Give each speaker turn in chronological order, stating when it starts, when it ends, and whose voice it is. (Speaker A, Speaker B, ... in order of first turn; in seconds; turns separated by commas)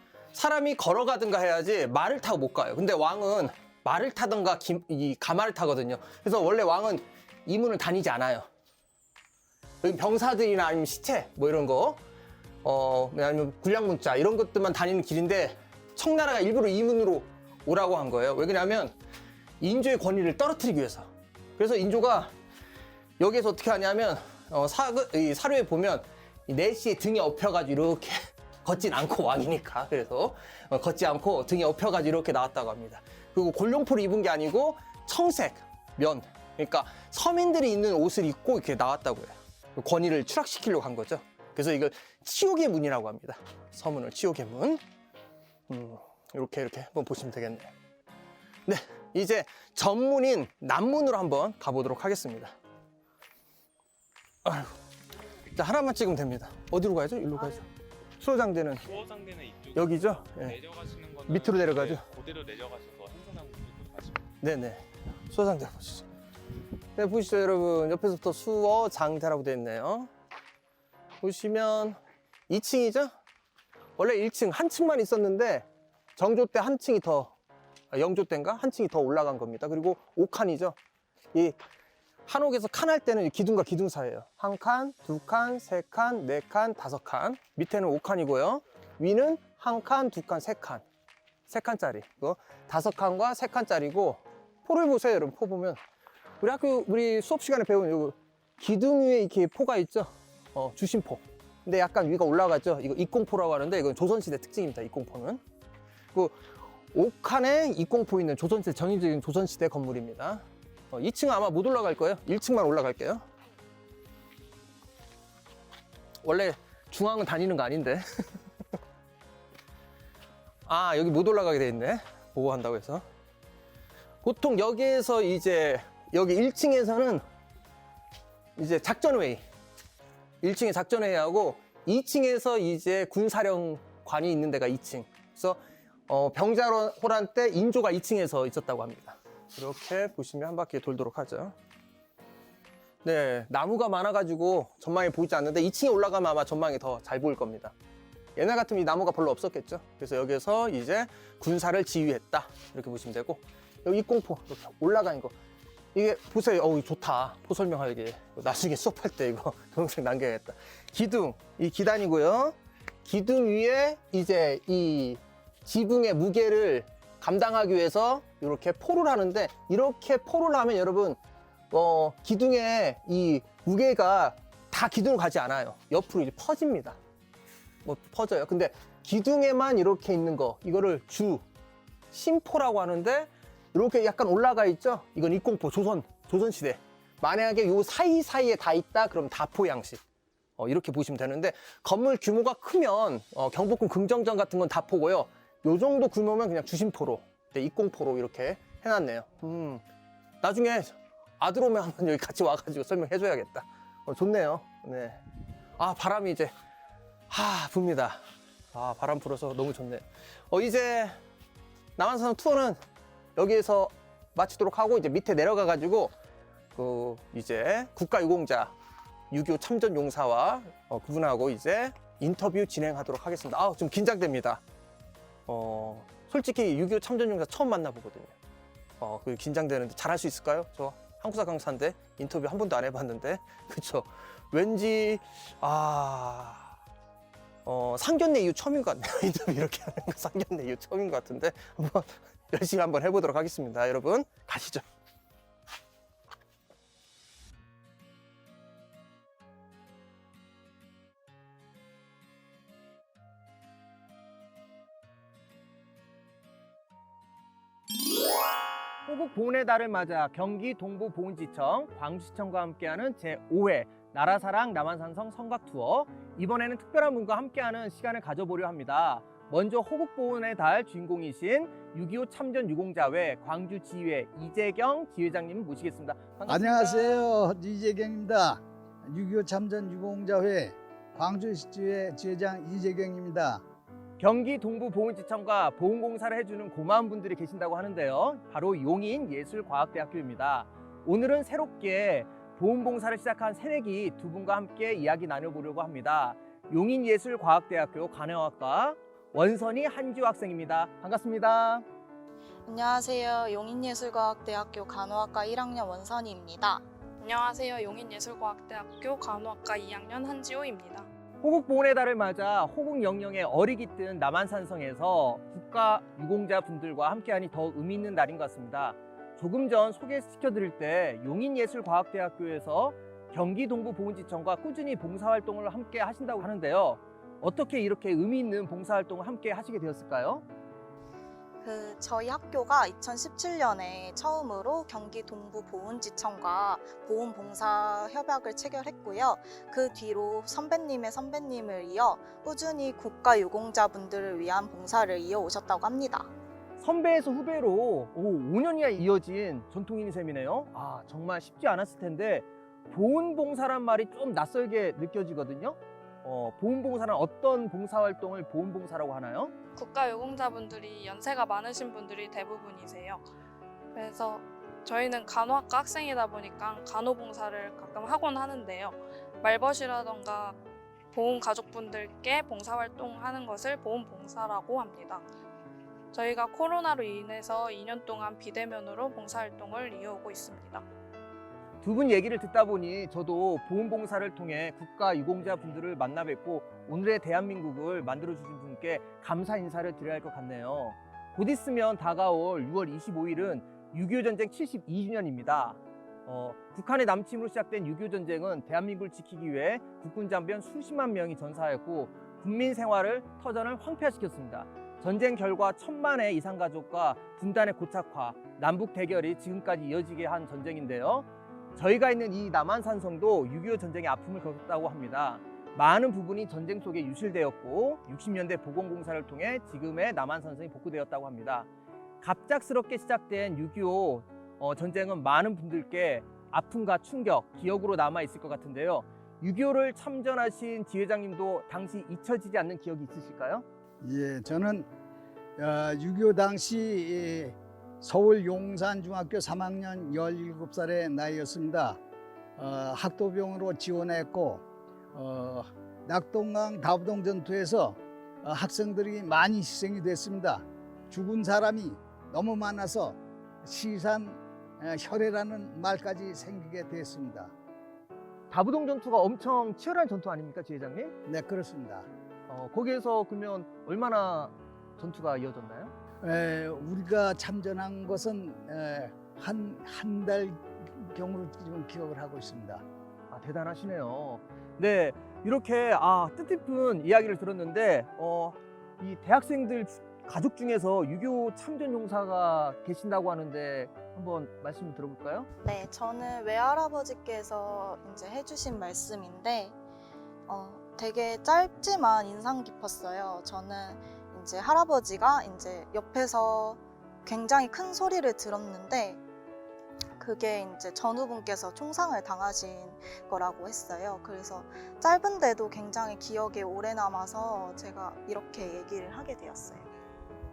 Speaker A: 0.3-8.4, Speaker A: 9.8-12.0, Speaker A: 12.6-18.9, Speaker A: 19.6-22.3, Speaker A: 23.2-44.8, Speaker A: 45.7-47.7, Speaker A: 48.6-52.5, Speaker A: 54.4-54.7, Speaker A: 55.5-57.6, Speaker A: 58.2-58.9, Speaker B: 58.8-64.2, Speaker A: 59.7-60.6, Speaker A: 61.3-62.1, Speaker A: 64.4-66.0, Speaker A: 67.0-70.1, Speaker A: 71.2-73.1, Speaker A: 74.0-77.3, Speaker A: 77.9-80.8, Speaker A: 81.3-81.6, Speaker A: 82.3-90.8, Speaker A: 91.5-95.8, Speaker A: 96.4-105.4, Speaker A: 106.9-113.2, Speaker A: 116.2-118.2, Speaker A: 120.7-123.0, Speaker A: 124.2-127.2, Speaker A: 128.6-129.4, Speaker A: 130.4-141.5, Speaker A: 143.0-147.7, Speaker A: 148.3-155.3, Speaker A: 155.9-171.2, Speaker A: 171.7-177.0, Speaker A: 177.8-181.4, Speaker A: 182.1-190.0, Speaker A: 190.6-199.8, Speaker A: 200.4-205.2, Speaker A: 205.8-206.5, Speaker A: 207.3-208.2, Speaker A: 208.7-211.2, Speaker A: 212.0-212.8, Speaker A: 213.3-216.1, Speaker A: 216.7-218.7, Speaker A: 219.3-224.6, Speaker A: 225.5-228.3, Speaker A: 229.0-236.7, Speaker A: 237.7-244.8, Speaker A: 259.1-277.3, Speaker C: 276.5-283.6, Speaker A: 284.2-301.8, Speaker D: 302.6-306.8, Speaker E: 307.2-311.1, Speaker A: 311.4-330.4, Speaker D: 331.6-346.3, Speaker A: 346.8-359.5, Speaker E: 359.8-363.2, Speaker E: 363.9-370.6, Speaker E: 371.1-375.2, Speaker E: 376.1-380.8, Speaker A: 381.8-421.7, Speaker A: 422.2-433.6, Speaker C: 434.0-434.9, Speaker C: 435.6-442.0, Speaker C: 442.6-444.6, Speaker C: 445.1-457.5, Speaker A: 458.5-461.1, Speaker C: 461.2-462.1, Speaker A: 462.5-465.9, Speaker C: 466.2-472.8, Speaker A: 473.3-485.5, Speaker D: 485.6-489.7, Speaker D: 490.5-499.2, Speaker D: 500.2-509.9